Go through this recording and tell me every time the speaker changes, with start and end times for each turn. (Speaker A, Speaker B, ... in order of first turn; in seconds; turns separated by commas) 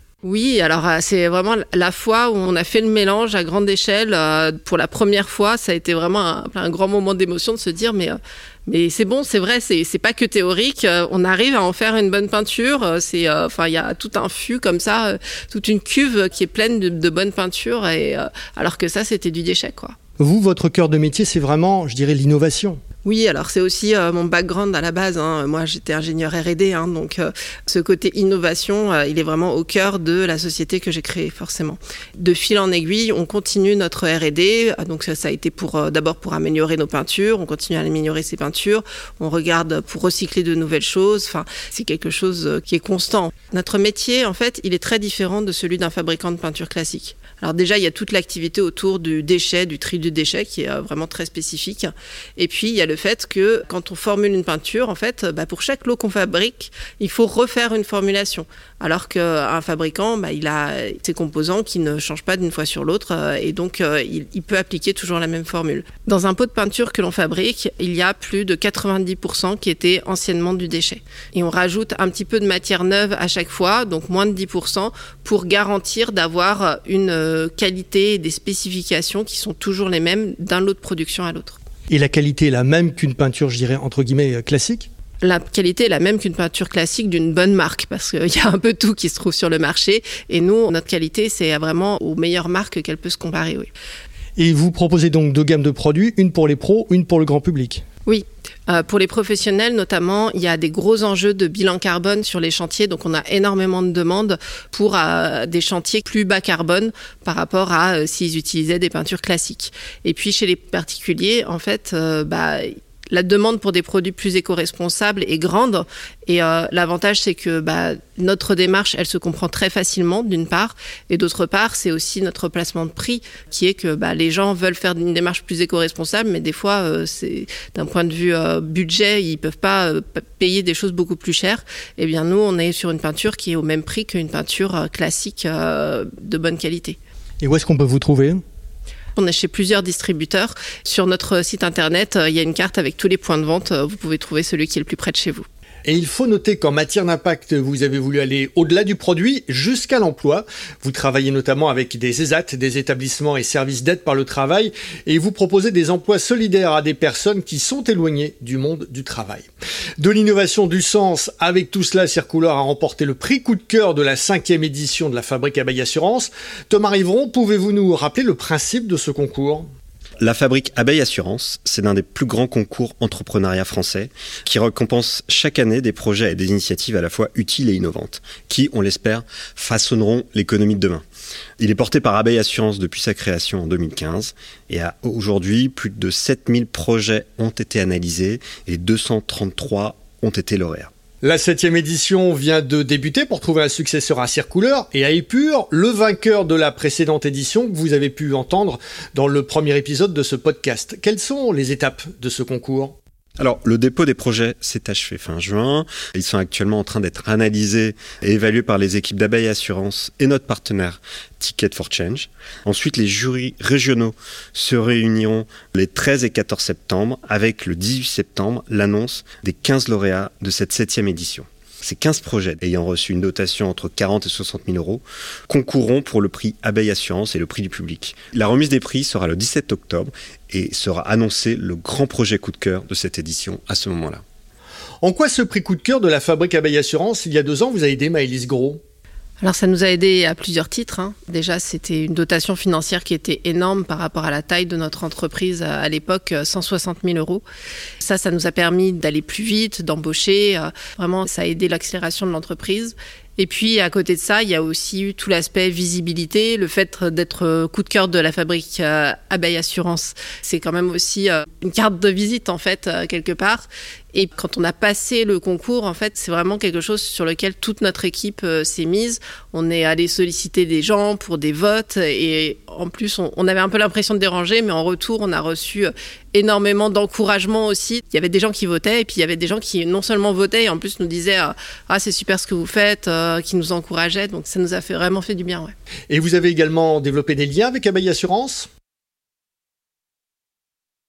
Speaker A: 0.2-19.9, Speaker B: 20.2-22.8, Speaker A: 23.0-81.6, Speaker B: 81.9-84.9, Speaker A: 85.2-93.7, Speaker B: 94.4-97.8, Speaker A: 98.0-137.0, Speaker B: 137.4-138.4, Speaker A: 139.2-145.4, Speaker B: 145.8-159.5, Speaker B: 160.0-169.7, Speaker C: 170.2-181.0, Speaker C: 181.6-190.9, Speaker B: 191.2-202.9, Speaker C: 203.4-234.2, Speaker B: 235.0-238.8, Speaker A: 239.4-247.4, Speaker A: 248.0-285.7, Speaker B: 286.1-288.7